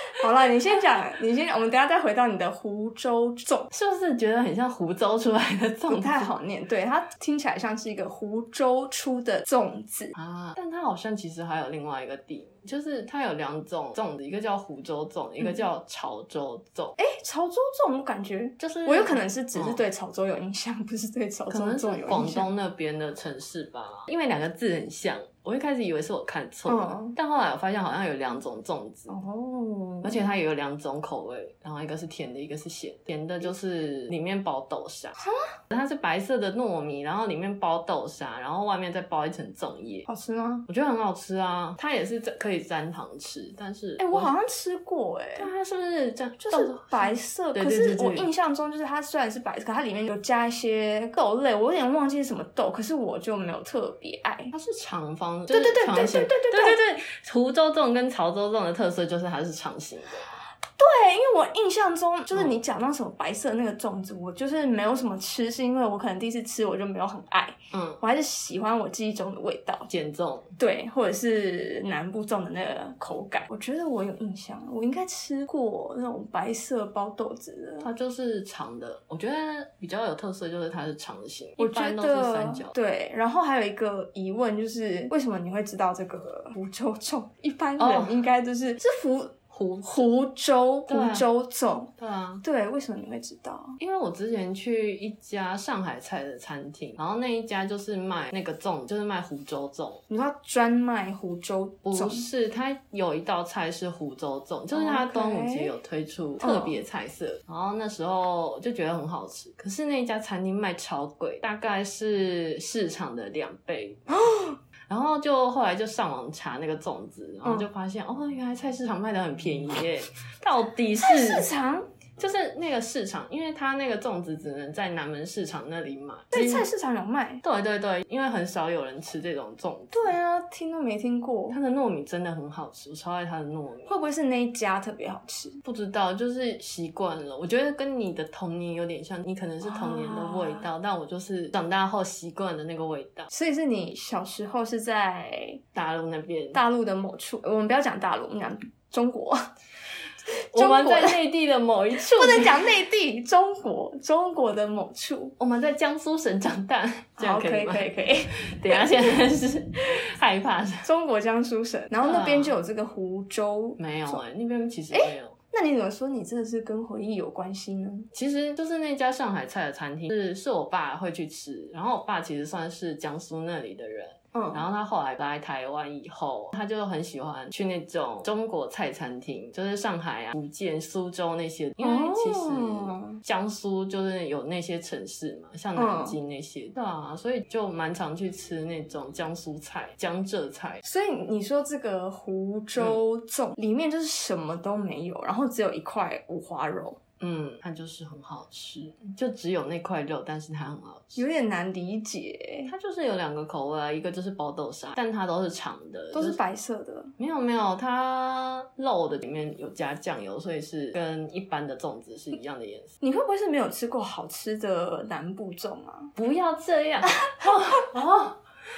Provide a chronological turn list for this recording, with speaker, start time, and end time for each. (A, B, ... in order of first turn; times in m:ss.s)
0:00.1-0:03.7 A
0:03.7-0:06.3 B
0:05.9-0:10.1 A
0:10.1-0:16.9 B
0:17.0-0:22.5 A
0:18.6-0:19.8 B
0:21.5-0:29.1 B
0:26.7-0:27.1 A
0:29.1-0:30.2 A
0:30.0-0:35.2 B
0:35.2-0:35.5 A
0:35.7-0:40.0 B
0:40.1-0:40.7 A
0:40.7-0:44.3 B
0:44.0-0:45.5 A
0:45.4-0:48.3 B
0:46.4-0:54.5 A
0:54.5-1:00.3 B
0:55.5-0:56.8 A
1:00.8-1:09.9 A
1:07.7-1:08.0 B
1:09.9-1:10.5 B
1:10.6-1:17.9 A
1:17.8-1:22.7 B
1:21.6-1:31.9 A
1:27.8-1:28.2 B
1:29.5-1:30.0 B
1:30.9-1:31.2 B
1:32.0-1:32.4 B
1:32.4-1:33.8 A
1:33.8-1:40.0 B
1:40.1-1:42.2 A
1:41.8-1:54.0 B
1:44.7-1:45.7 A
1:46.4-1:46.8 A
1:54.1-1:54.6 A
1:54.9-2:01.5 B
2:01.0-2:01.9 A
2:02.2-2:06.6 B
2:06.3-2:07.4 A
2:07.4-2:10.1 B
2:09.9-2:11.6 A
2:11.5-2:13.9 B
2:13.9-2:15.6 A
2:15.6-2:23.3 B
2:19.6-2:20.6 A
2:23.3-2:25.6 A
2:25.7-2:26.6 B
2:26.5-2:29.5 A
2:30.5-2:31.2 A
2:30.5-2:32.7 B
2:32.0-2:35.3 A
2:35.4-2:40.9 B
2:37.2-2:38.9 A
2:40.8-2:44.2 A
2:42.0-2:42.5 B
2:43.8-2:45.4 B
2:44.9-2:48.1 A
2:48.1-3:10.8 B
2:54.3-2:54.6 A
3:01.8-3:03.2 A
3:05.7-3:06.2 A
3:10.8-3:17.0 A
3:17.2-3:21.2 B
3:21.2-3:22.7 A
3:22.7-3:26.4 B
3:26.1-3:27.1 A
3:27.2-3:32.9 B
3:33.0-3:36.1 A
3:36.2-3:38.4 B
3:37.1-3:37.8 A